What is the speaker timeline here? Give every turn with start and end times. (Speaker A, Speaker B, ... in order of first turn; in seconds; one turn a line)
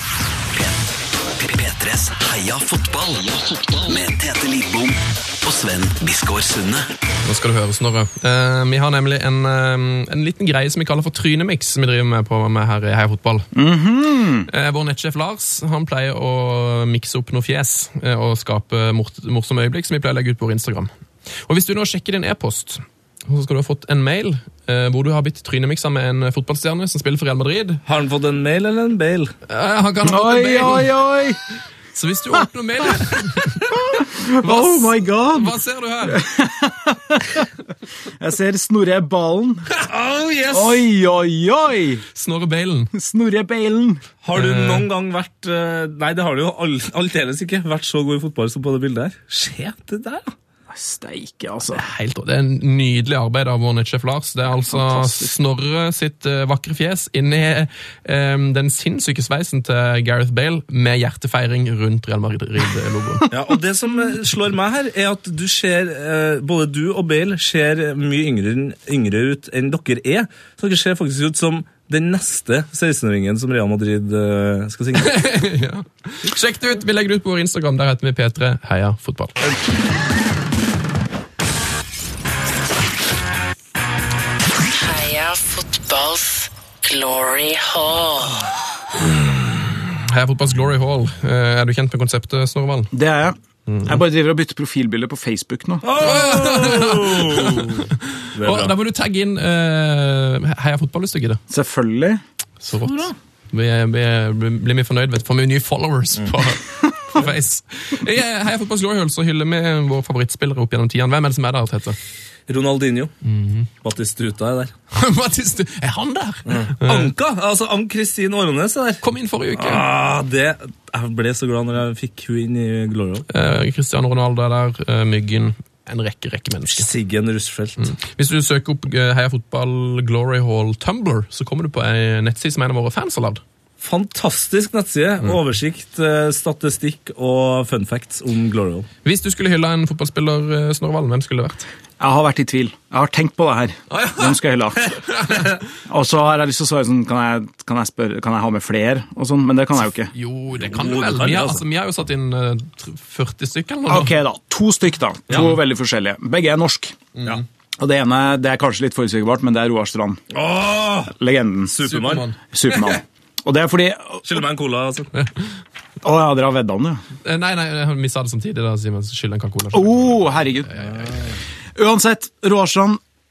Speaker A: 0.5-6.9
Speaker B: 7.2-13.5
Speaker C: 13.5-14.5
Speaker B: 14.5-20.9
Speaker B: 21.4-27.8
Speaker D: 27.9-29.3
Speaker B: 29.5-30.9
Speaker C: 30.0-31.4
Speaker B: 31.9-36.2
Speaker C: 33.7-35.5
Speaker C: 36.1-37.5
Speaker C: 38.2-39.7
Speaker D: 39.8-40.9
Speaker C: 40.5-42.0
Speaker B: 42.1-42.9
Speaker C: 42.9-44.0
Speaker D: 44.2-50.3
Speaker B: 44.4-44.9
Speaker C: 50.7-51.8
Speaker B: 51.7-63.3
Speaker C: 54.5-55.4
Speaker D: 63.3-75.2
Speaker B: 75.0-79.3
Speaker E: 84.8-88.4
Speaker B: 89.0-92.9
Speaker C: 92.9-95.9
Speaker B: 93.7-93.9
Speaker D: 95.8-98.7
Speaker B: 96.0-101.4
Speaker C: 101.5-102.2
Speaker B: 102.6-112.0
Speaker D: 102.8-103.2
Speaker D: 112.5-113.1
Speaker B: 113.2-113.7
Speaker D: 113.8-114.7
Speaker B: 114.9-117.1
Speaker D: 116.5-119.0
Speaker B: 119.0-119.8
Speaker D: 119.6-123.3
Speaker B: 123.3-126.9
Speaker D: 126.7-127.9
Speaker B: 127.8-133.4
Speaker D: 133.8-138.9
Speaker B: 139.1-141.7
Speaker C: 142.0-144.9
Speaker B: 143.9-144.4
Speaker B: 145.2-145.5
Speaker C: 145.8-150.1
Speaker B: 150.1-154.2
Speaker D: 150.6-151.6
Speaker C: 153.9-157.1
Speaker B: 157.2-157.4
Speaker C: 157.8-160.2
Speaker D: 160.3-161.1
Speaker C: 161.1-161.8
Speaker D: 161.7-162.3
Speaker B: 161.8-162.9
Speaker C: 162.5-164.4
Speaker D: 164.2-165.1
Speaker C: 166.0-167.0
Speaker B: 167.2-171.3
Speaker C: 169.7-170.7
Speaker C: 171.8-173.0